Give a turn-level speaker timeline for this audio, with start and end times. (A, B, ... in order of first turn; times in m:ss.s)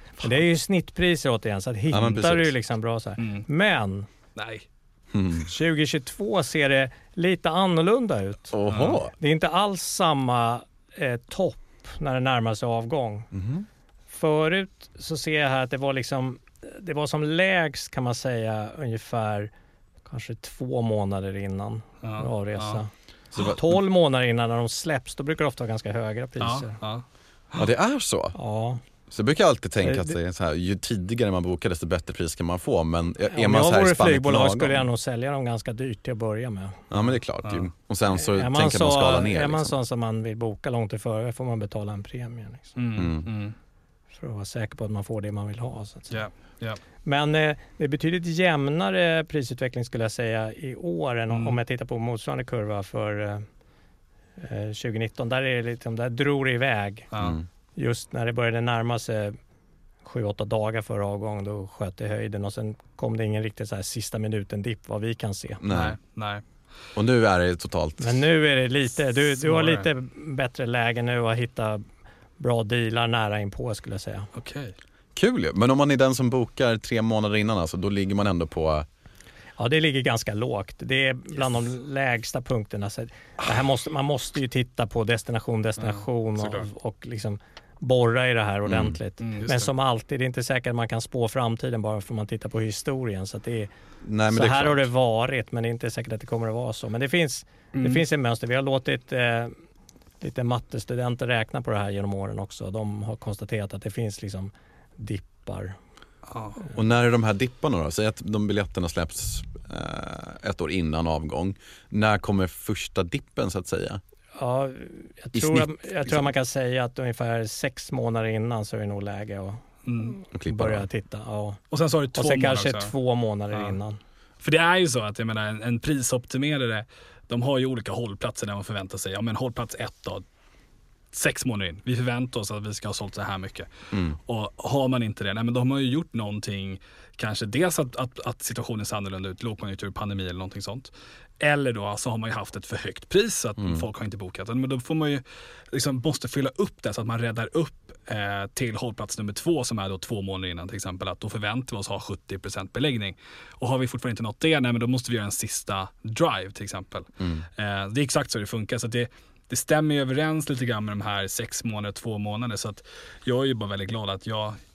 0:00.2-0:04.1 A
0:01.9-0:02.5 B
0:03.2-0:03.4 C
0:04.4-0:04.7 C
0:05.1-0:05.5 B
0:05.4-0:08.6 A
0:08.5-0:09.1 B
0:08.7-0:09.0 C
0:09.1-0:13.3 A
0:13.3-0:13.7 B
0:14.1-0:19.5 A
0:20.0-0:26.8 A
0:22.0-0:22.8 C
0:23.4-0:23.6 B
0:26.4-0:27.6 C
0:27.6-0:28.4 B
0:28.4-0:28.8 A
0:29.1-0:34.8 B
0:29.8-0:30.1 A
0:33.3-0:37.0 A
0:36.9-0:39.7 B
0:37.4-0:37.7 C
0:38.1-0:42.8 A
0:42.8-0:43.6 C
0:43.0-0:43.3 B
0:44.1-0:46.2 A
0:46.1-0:46.8 C
0:47.0-0:53.5 A
0:51.3-0:51.6 C
0:54.4-0:57.1 A
0:57.1-0:57.4 C
0:57.8-0:59.4 A
1:00.0-1:05.6 A
1:05.6-1:06.0 B
1:05.7-1:06.4 C
1:07.0-1:08.2 B
1:08.0-1:11.8 A
1:09.4-1:09.9 C
1:12.4-1:14.3 A
1:14.4-1:14.8 C
1:15.2-1:18.9 B
1:19.6-1:33.7 A
1:25.8-1:26.7 C
1:28.7-1:29.0 B
1:29.2-1:29.7 C
1:34.0-1:34.9 B
1:34.3-1:39.6 A
1:37.8-1:38.0 C
1:40.2-1:45.8 A
1:46.3-1:46.6 C
1:46.8-1:54.0 B
1:54.4-2:01.6 A
1:55.3-1:56.3 B
1:59.9-2:00.2 C
2:00.3-2:00.9 B
2:01.7-2:02.9 C
2:02.1-2:04.0 A
2:03.5-2:03.8 C
2:04.4-2:10.2 C
2:11.1-2:44.6 C
2:13.9-2:14.2 B
2:23.6-2:23.8 B
2:37.2-2:37.5 B